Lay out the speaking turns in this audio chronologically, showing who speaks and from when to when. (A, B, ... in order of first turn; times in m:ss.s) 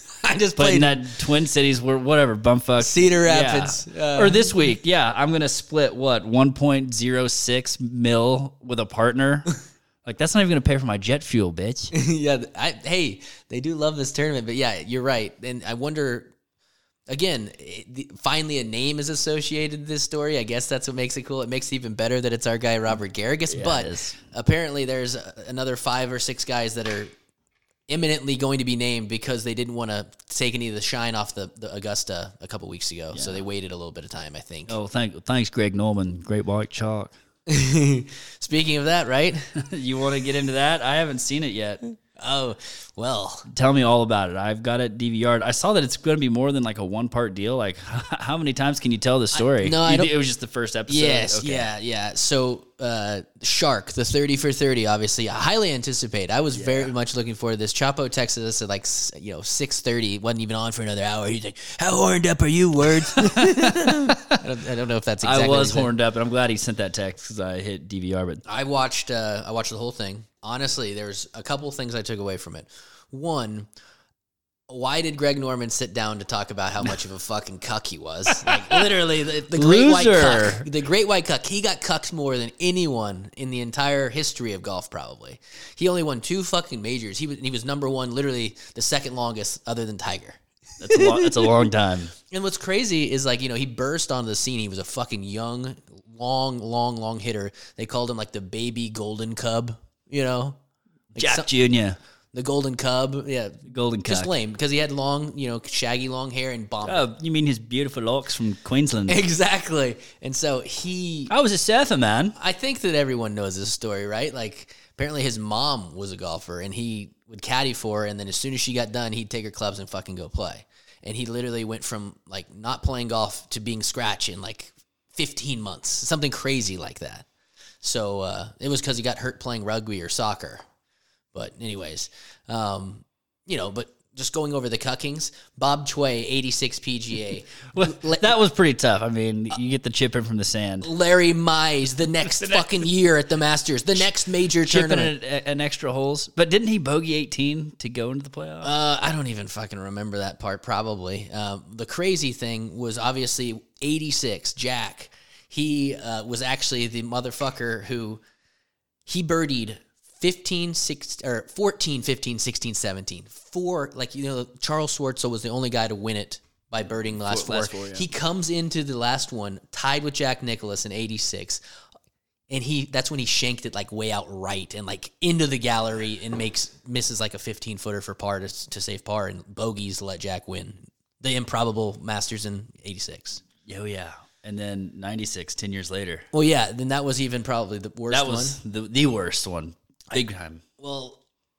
0:00.2-0:01.0 A
0:00.6-0:09.5 B
0:02.8-0:04.5 A
0:10.0-0:11.9 B
0:11.9-0:16.3 A
0:17.1-0:27.1 A
0:23.5-0:24.2 B
0:27.9-0:34.8 A
0:33.1-0:33.4 B
0:34.7-0:37.1 B
0:37.5-0:39.5 A
0:39.6-0:41.8 B
0:42.2-0:43.5 A
0:43.5-0:51.7 B
0:49.3-0:50.1 A
0:50.9-1:05.9 A
0:56.5-0:56.9 B
1:03.0-1:04.3 B
1:05.2-1:08.4 B
1:08.4-1:13.7 A
1:14.7-1:30.4 A
1:18.3-1:18.8 B
1:19.5-1:20.6 B
1:30.8-1:32.1 B
1:30.9-1:31.4 A
1:32.3-1:40.6 A
1:41.1-1:41.5 A
1:41.2-1:42.0 B
1:42.3-1:47.1 A
1:43.7-1:44.3 B
1:46.8-1:49.2 B
1:49.1-1:51.3 A
1:51.3-1:52.4 B
1:52.3-2:07.3 A
2:07.8-2:10.6 A
2:11.3-2:18.3 A
2:17.7-2:20.9 B
2:20.8-2:25.1 A
2:22.4-2:22.8 B
2:24.6-2:28.7 B
2:28.6-2:38.2 A
2:39.0-2:51.6 A
2:47.0-2:48.1 B
2:52.5-3:03.4 A
3:03.6-3:06.2 B
3:06.3-3:08.6 A
3:08.1-3:10.6 B
3:10.8-3:11.2 A